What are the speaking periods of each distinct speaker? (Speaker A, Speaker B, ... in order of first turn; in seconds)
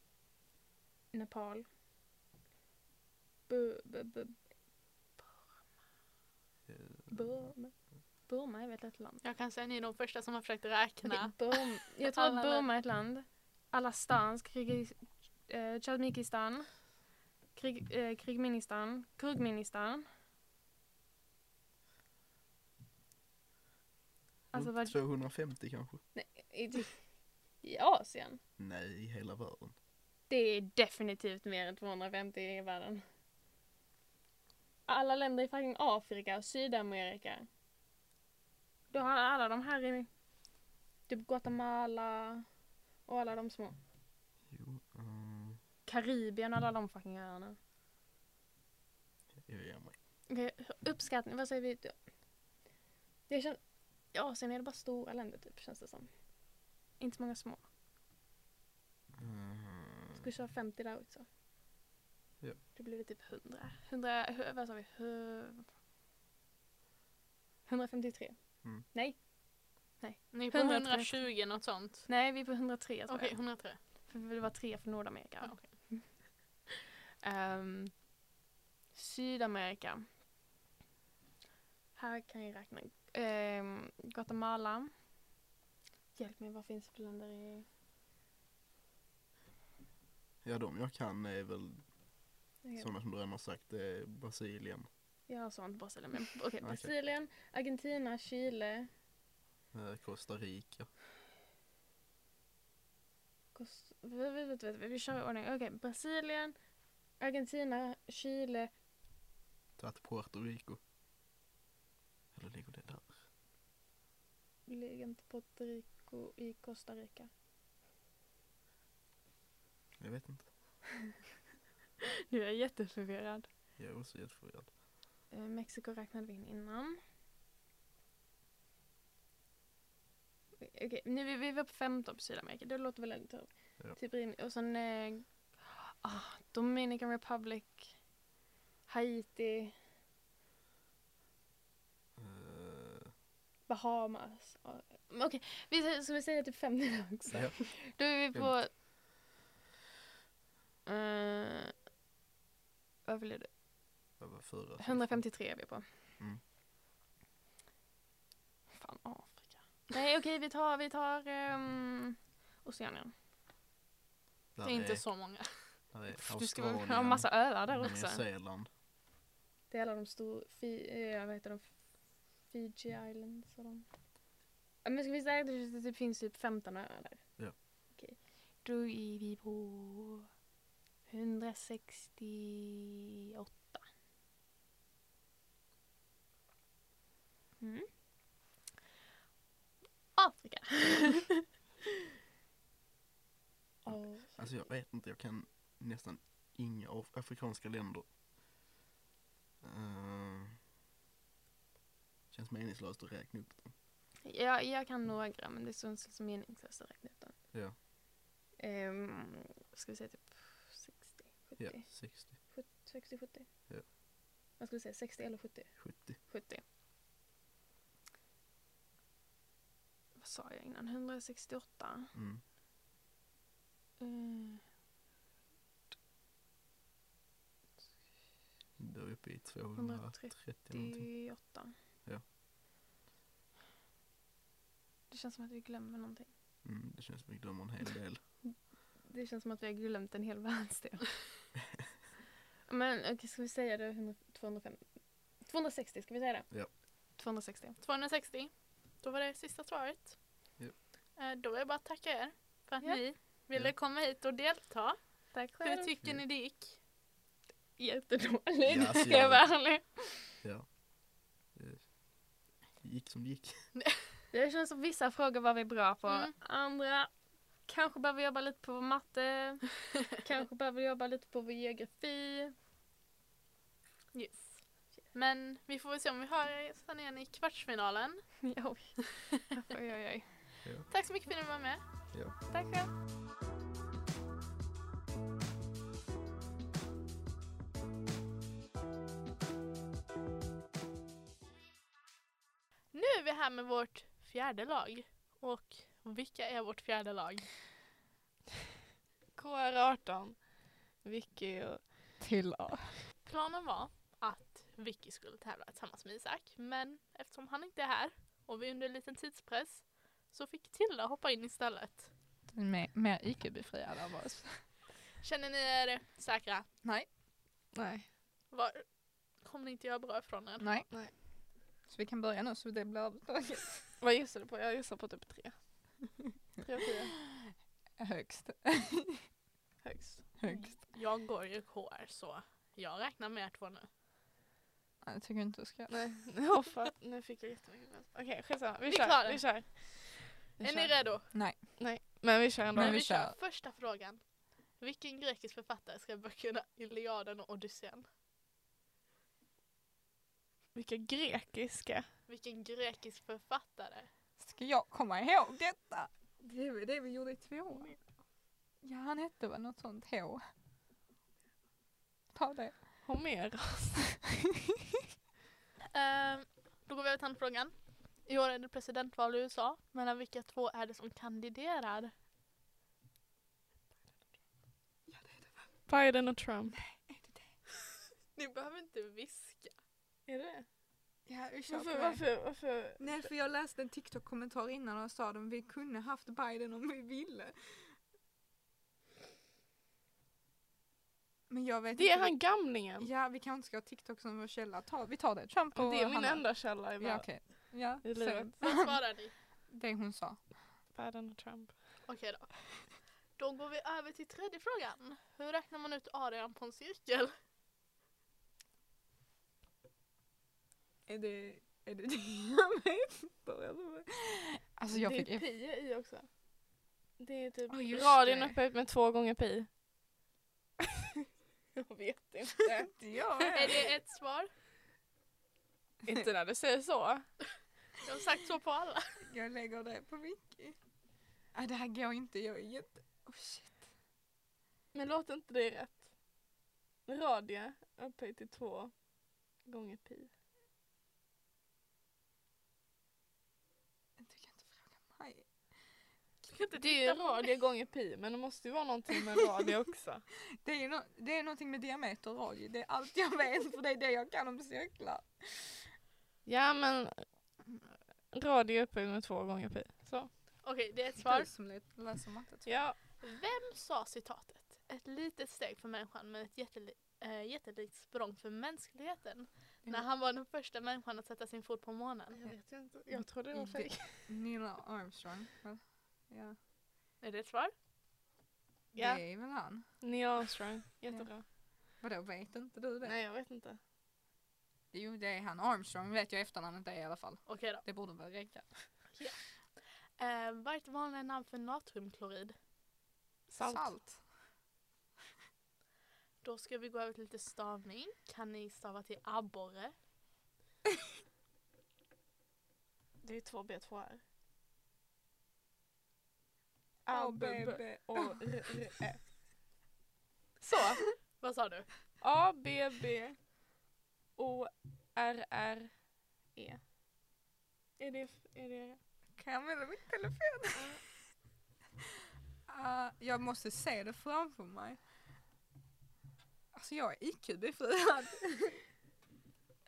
Speaker A: 1.1-1.7, 3.5-4.4, 7.1-7.8, 8.3-9.2, 11.1-16.9, 17.6-20.1, 24.5-25.0, 26.1-28.4, 30.3-33.0, 34.9-37.5, 38.9-40.1, 41.1-42.5, 43.0-43.8, 45.9-47.6, 50.3-52.1, 53.3-56.3, 57.0-57.7, 60.2-61.3, 62.8-65.7, 67.7-76.6, 77.2-78.0, 78.9-80.1, 82.0-84.9, 86.2-87.7, 95.3-98.9, 103.5-106.6, 107.2-108.7, 114.7-117.3, 122.3-123.5, 125.3-127.0, 130.6-138.0, 138.9-139.8, 143.7-148.7, 150.9-151.7, 153.1-153.5, 154.8-155.9, 158.7-163.1, 166.1-168.2, 169.7-173.9, 174.8-180.2, 181.1-183.9, 187.6-188.0, 190.2-191.4, 193.8-194.7, 204.2-207.5, 208.6-213.5, 214.6-216.6, 220.2-222.1, 224.0-224.6, 229.8-231.8, 235.1-236.3, 238.4-241.3, 242.7-246.5, 247.1-247.8, 252.8-253.1, 255.3-255.9, 257.8-260.3, 264.3-272.6, 278.4-280.5
Speaker B: 6.7-7.4, 24.5-26.0, 28.6-29.8, 44.5-45.6, 49.4-50.0, 59.2-60.2, 90.4-91.9, 92.8-94.9, 96.6-96.9, 99.7-100.9, 109.8-110.8, 112.3-113.2, 120.0-120.5, 123.8-124.7, 142.2-143.1, 147.3-148.8, 154.2-155.4, 164.6-168.7, 193.9-198.1, 199.6-200.6, 202.3-203.7, 211.6-212.4, 215.8-216.2, 222.1-222.4, 228.8-231.2, 236.6-238.2, 258.6-259.8, 260.4-263.7
Speaker C: 9.2-12.7, 70.3-72.1, 73.1-73.8, 75.4-75.7, 164.6-165.7, 247.8-250.6, 251.2-256.8, 266.1-266.4, 274.1-278.5, 280.9-282.9, 292.9-297.5, 303.2-312.1, 315.2-316.7, 318.5-320.7, 330.6-333.9, 338.9-341.3, 342.8-348.1, 352.3-354.1, 365.9-372.1, 378.3-379.8, 398.6-399.3, 402.1-402.7, 403.4-407.3, 423.6-424.5, 428.0-429.1, 446.4-447.5, 460.6-461.5, 463.2-472.4, 477.2-477.7, 487.5-487.8, 489.1-492.6, 496.4-499.9, 510.7-511.9
Speaker D: 299.4-302.2, 317.7-318.1, 324.0-325.9, 326.6-327.1, 329.8-330.4, 335.9-341.2, 341.8-343.1, 350.7-352.1, 363.0-364.0, 375.9-376.8, 380.3-380.7, 381.7-383.3, 391.9-393.1, 395.8-398.5, 400.9-401.9, 414.9-416.4, 417.2-419.7, 421.7-423.7, 426.1-427.3, 434.9-436.1, 437.1-439.0, 439.6-440.3, 446.8-450.2, 456.4-457.3, 458.3-460.3, 462.7-463.0, 472.4-474.3, 478.9-481.5, 483.0-483.8, 493.5-493.9, 503.2-504.2, 507.1-509.2, 510.6-511.0, 512.2-513.5, 514.4-516.8, 518.0-519.0
Speaker E: 302.2-302.9, 312.5-314.6, 316.8-317.1, 320.6-320.9, 321.8-323.9, 328.0-329.2, 330.4-330.9, 335.0-335.9, 341.3-341.9, 342.7-343.4, 354.4-357.9, 358.8-360.4, 362.3-363.0, 375.1-375.8, 376.7-377.5, 381.3-387.9, 391.5-399.1, 399.7-400.6, 411.1-415.5, 417.7-418.6, 422.9-423.7, 429.3-430.8, 431.5-433.9, 444.2-445.5, 450.6-455.6, 461.2-462.8, 473.1-476.6, 478.9-480.0, 482.0-483.2, 484.9-489.1, 493.6-494.3, 507.1-508.5, 519.4-521.0, 522.7-525.0, 526.7-528.8